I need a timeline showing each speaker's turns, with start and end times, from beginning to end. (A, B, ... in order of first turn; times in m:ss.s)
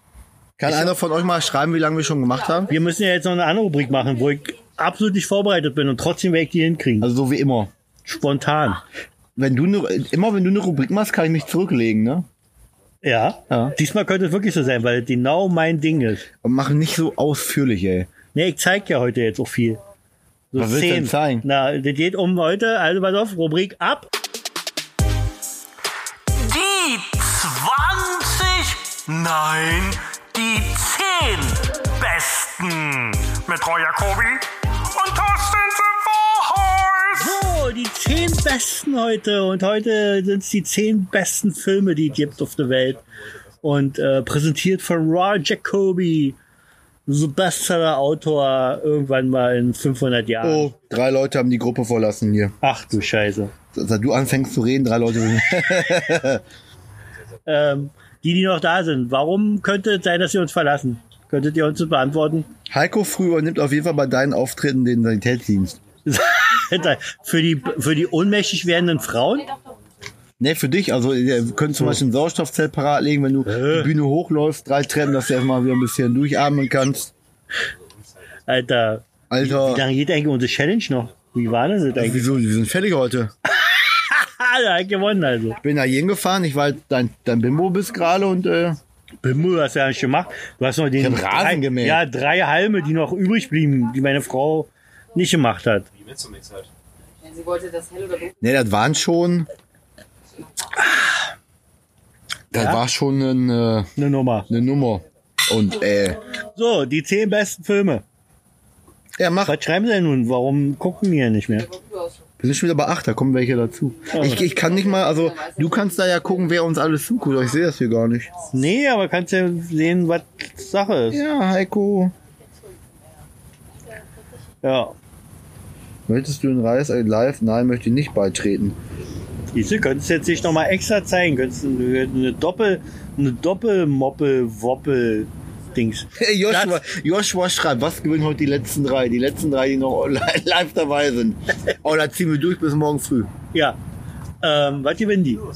0:00.6-0:02.7 A
0:00.6-0:01.0 B
0:02.7-0:07.1 B
0:07.0-0:07.7 A
0:08.0-0:08.8 B
0:09.4-0:12.3 A
0:13.0-0:16.2 B
0:16.4-0:18.1 A
0:18.3-0:19.8 B
0:20.5-0:24.1 B
0:20.6-0:21.4 A
0:26.5-0:27.6 C
0:27.5-0:34.4 B
0:34.9-0:37.2 C
0:37.1-0:43.0 B
0:42.1-0:43.0 D
0:43.6-0:46.4 B
0:47.1-0:50.7 B
0:50.4-0:52.5 A
0:52.6-0:53.5 B
0:53.7-0:56.4 A
0:57.5-1:02.5 B
1:02.7-1:05.7 A
1:06.0-1:09.5 B
1:09.0-1:10.1 D
1:10.4-1:17.0 A
1:13.4-1:13.9 B
1:17.6-1:18.4 D
1:18.5-1:22.2 B
1:19.3-1:19.8 A
1:22.0-1:23.3 A
1:23.5-1:25.6 B
1:25.6-1:28.8 A
1:29.2-1:35.8 B
1:31.0-1:32.0 A
1:35.9-1:36.7 D
1:37.2-1:38.4 E
1:38.4-1:39.5 A
1:42.5-1:43.9 A
1:42.6-1:42.8 B
1:44.0-1:44.5 B
1:44.5-1:46.2 A
1:46.6-1:48.0 B
1:49.2-1:49.6 A
1:49.4-1:51.6 B
1:51.5-1:52.2 E
1:52.4-1:58.3 A
1:54.1-1:56.4 E
1:54.1-1:54.4 B
1:58.5-2:01.2 B
2:01.1-2:02.1 A
2:04.6-2:04.9 B
2:06.1-2:08.8 A
2:09.5-2:16.8 B
2:16.2-2:23.3 A
2:24.4-2:25.4 B